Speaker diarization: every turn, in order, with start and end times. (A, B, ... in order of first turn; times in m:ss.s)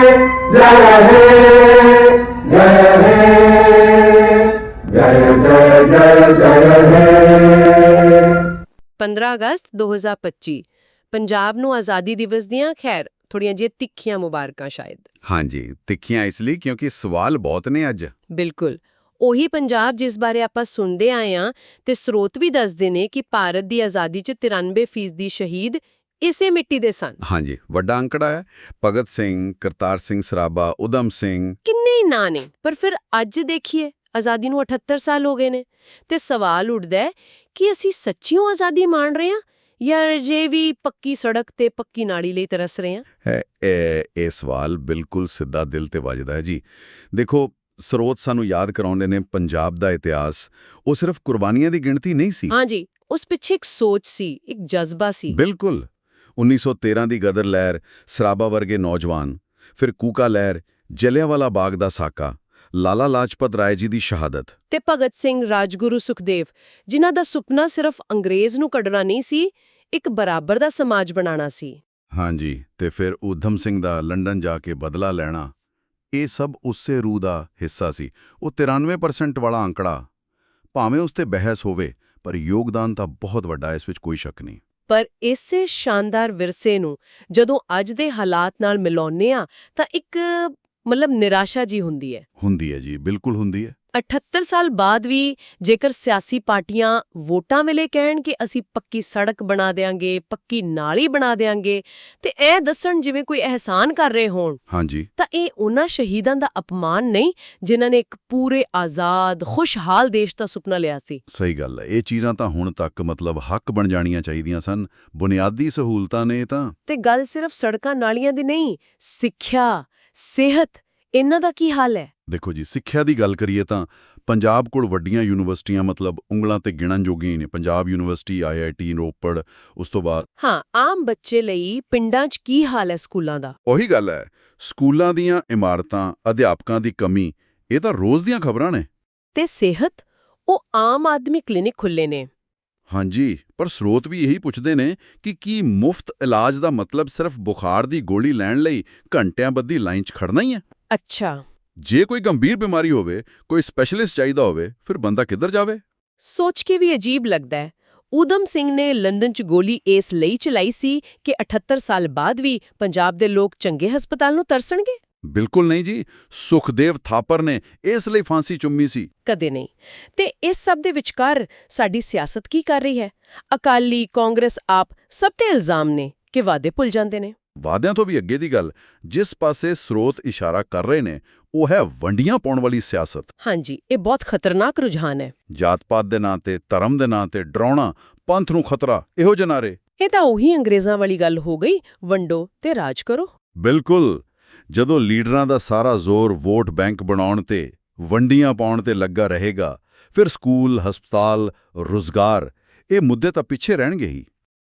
0:00.5-0:01.3 A
0:02.4-0:03.3 A
0:04.9-0:07.2 A
0:09.0-0:15.0 B
0:15.2-0:18.1 C
0:18.3-0:27.2 B
0:27.2-0:31.6 C
0:31.6-0:43.0 B
0:43.2-0:52.5 C
0:52.5-0:55.4 B
0:55.3-1:04.5 C
1:04.7-1:11.8 B
1:12.1-1:15.5 C
1:16.1-1:20.0 C
1:20.7-1:24.6 C
1:24.9-1:32.2 B
1:32.4-1:33.7 C
1:33.9-1:44.6 B
1:44.7-1:45.1 C
1:45.2-1:51.2 B
1:51.3-1:56.7 C
1:56.8-2:02.1 B
2:02.3-2:10.2 C
2:10.4-2:13.6 B
2:13.6-2:18.9 C
2:19.3-2:22.3 B
2:22.9-2:30.6 C
2:30.9-2:31.4 B
2:31.8-2:35.8 C
2:36.2-2:45.0 B
2:45.3-2:49.1 C
2:49.2-2:57.3 B
2:57.6-3:03.3 C
3:03.4-3:05.3 B
3:05.5-3:09.8 C
3:10.0-3:13.3 B
3:13.6-3:24.3 C